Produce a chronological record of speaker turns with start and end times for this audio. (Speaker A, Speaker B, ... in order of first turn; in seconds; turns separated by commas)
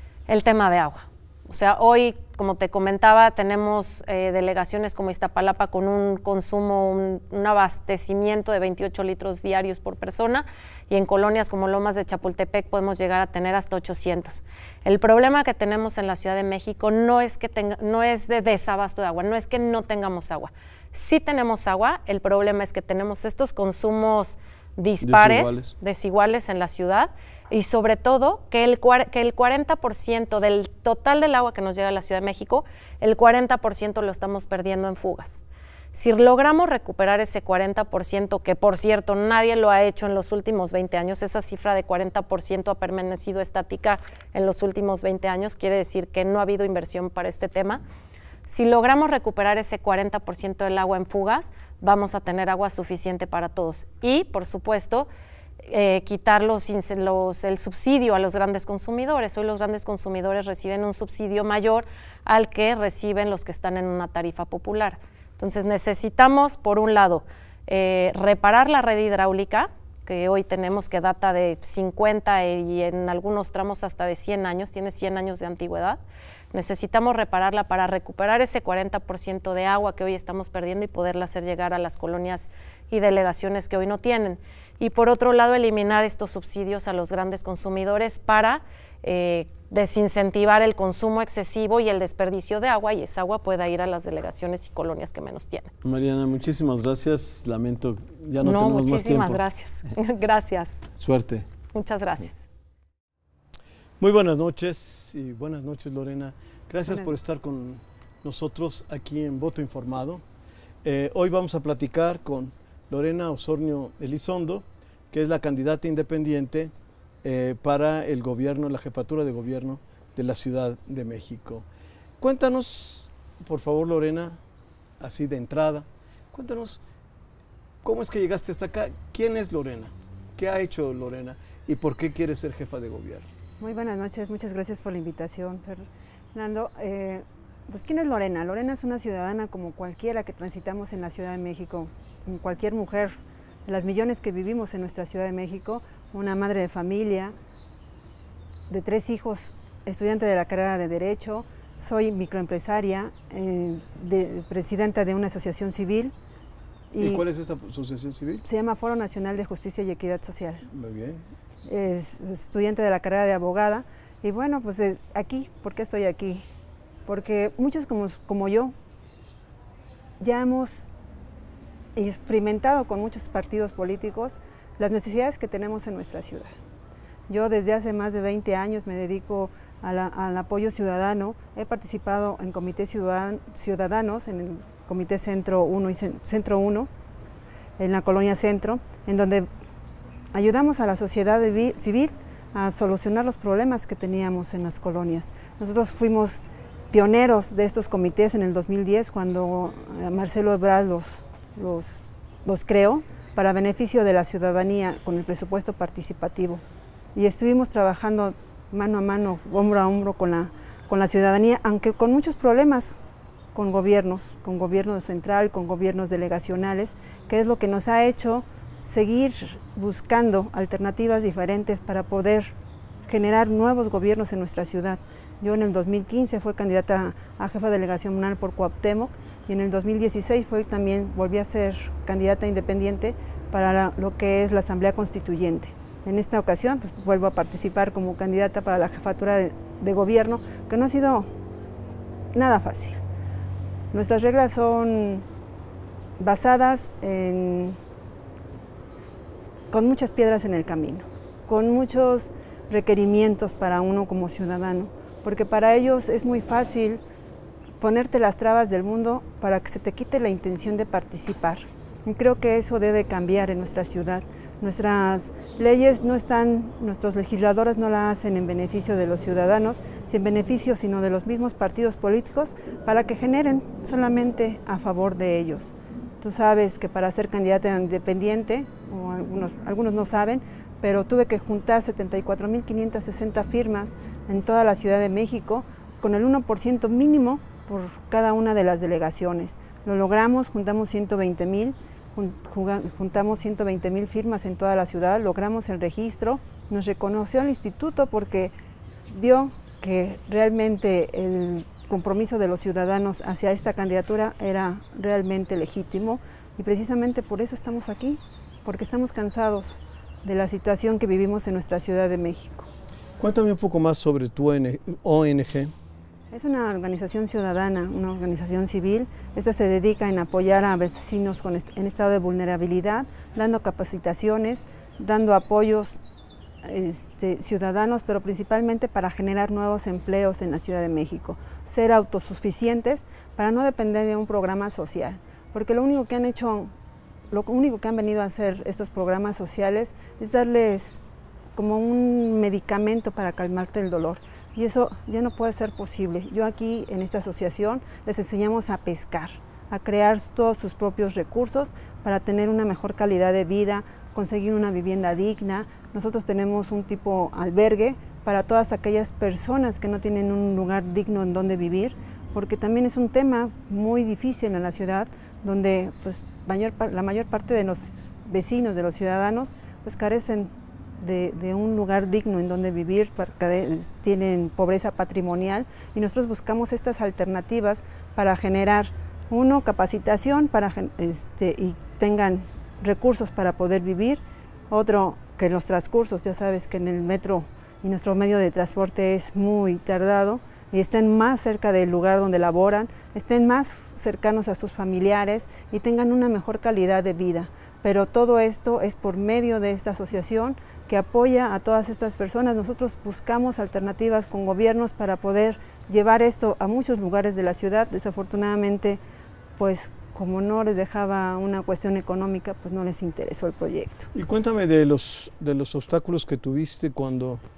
Speaker A: 0.3-35.4, Speaker B: 25.0-25.7, Speaker A: 35.9-47.8, Speaker A: 48.5-55.1, Speaker A: 55.6-76.0, Speaker A: 76.5-95.7, Speaker B: 95.8-99.4, Speaker A: 98.4-100.8, Speaker B: 101.0-101.5, Speaker A: 101.7-102.4, Speaker B: 104.0-110.2, Speaker B: 110.8-116.7, Speaker B: 117.2-121.7, Speaker B: 122.2-124.4, Speaker B: 125.0-126.8, Speaker B: 127.8-133.3, Speaker C: 133.6-143.1, Speaker C: 143.7-147.3, Speaker C: 148.7-156.1, Speaker C: 156.9-157.2, Speaker B: 157.0-158.4, Speaker C: 158.4-160.7, Speaker B: 160.7-161.2, Speaker C: 161.7-166.4, Speaker C: 167.1-168.7, Speaker C: 170.2-170.8, Speaker C: 171.9-176.5, Speaker C: 177.3-186.9, Speaker C: 187.8-189.5, Speaker C: 190.3-196.4, Speaker C: 196.9-206.6, Speaker C: 207.1-213.0, Speaker C: 213.5-222.5, Speaker C: 223.1-241.3, Speaker C: 242.3-243.0, Speaker C: 243.9-245.2, Speaker C: 246.2-247.8, Speaker C: 249.7-257.0, Speaker C: 257.8-298.5, Speaker C: 299.1-312.7, Speaker B: 313.2-315.7, Speaker C: 316.3-326.0, Speaker C: 326.6-336.7, Speaker C: 337.3-341.0, Speaker C: 341.6-409.0, Speaker C: 409.6-414.1, Speaker B: 414.1-417.4